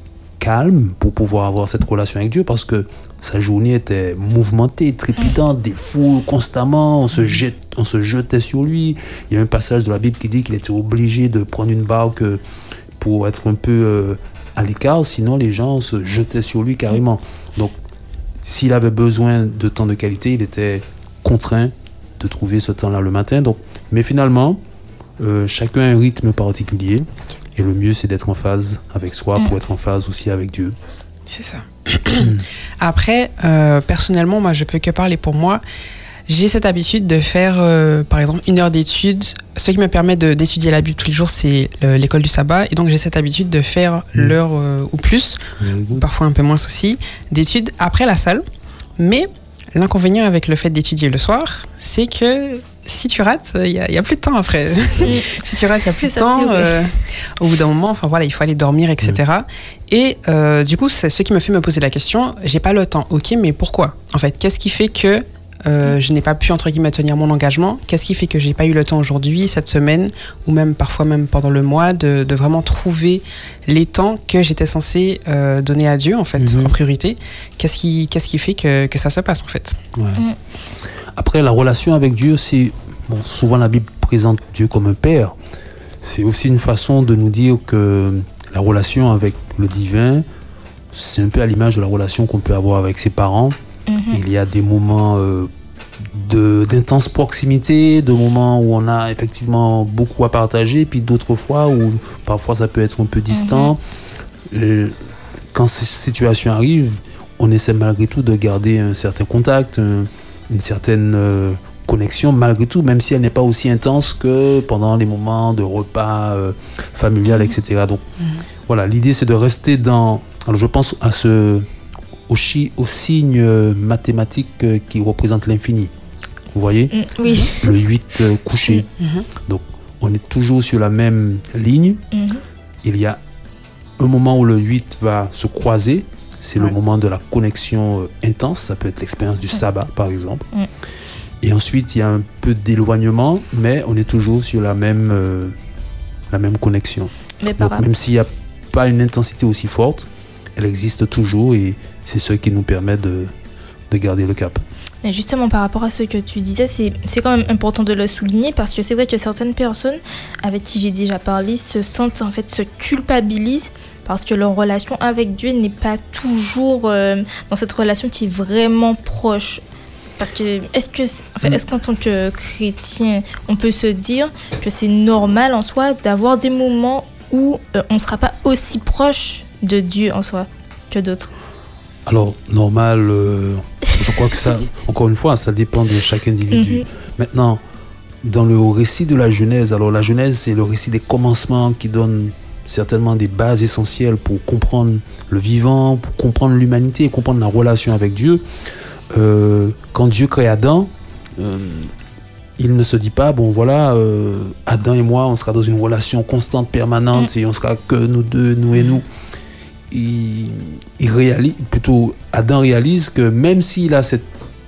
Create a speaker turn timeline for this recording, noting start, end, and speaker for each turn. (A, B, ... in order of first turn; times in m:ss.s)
0:00.4-0:12.4 A
0:13.0-0:17.7 A
0:18.4-0:24.6 A
0:25.2-0:30.7 A
0:31.3-0:35.6 B
0:32.2-0:32.4 A
0:36.3-0:45.4 B
0:45.6-0:46.1 A
0:45.9-0:48.4 B
0:49.0-1:19.8 B
0:55.0-0:55.4 C
0:56.0-0:56.8 C
1:16.4-1:16.7 A
1:19.9-1:20.2 A
1:21.2-1:25.4 A
1:26.0-1:30.2 A
1:30.9-1:33.6 A
1:33.9-1:34.2 C
1:34.1-1:35.5 A
1:36.1-1:43.8 A
1:43.3-1:43.7 C
1:44.5-1:45.0 A
1:45.5-1:58.0 A
1:57.3-1:57.5 C
1:58.7-2:01.6 A
2:02.3-2:05.9 A
2:06.5-2:06.9 A
2:06.9-2:07.7 C
2:07.6-2:12.0 A
2:09.0-2:09.3 B
2:12.1-2:12.4 C
2:12.8-2:13.2 A
2:14.0-2:20.4 A
2:21.4-2:25.5 A
2:26.3-2:33.3 A
2:27.4-2:27.8 C
2:33.9-2:34.6 A
2:35.0-2:49.6 C
2:50.2-3:01.3 C
3:02.0-3:07.6 A
3:06.5-3:06.8 C
3:08.2-3:18.4 A
3:19.1-3:21.9 A
3:22.6-3:29.1 A
3:29.9-3:34.3 A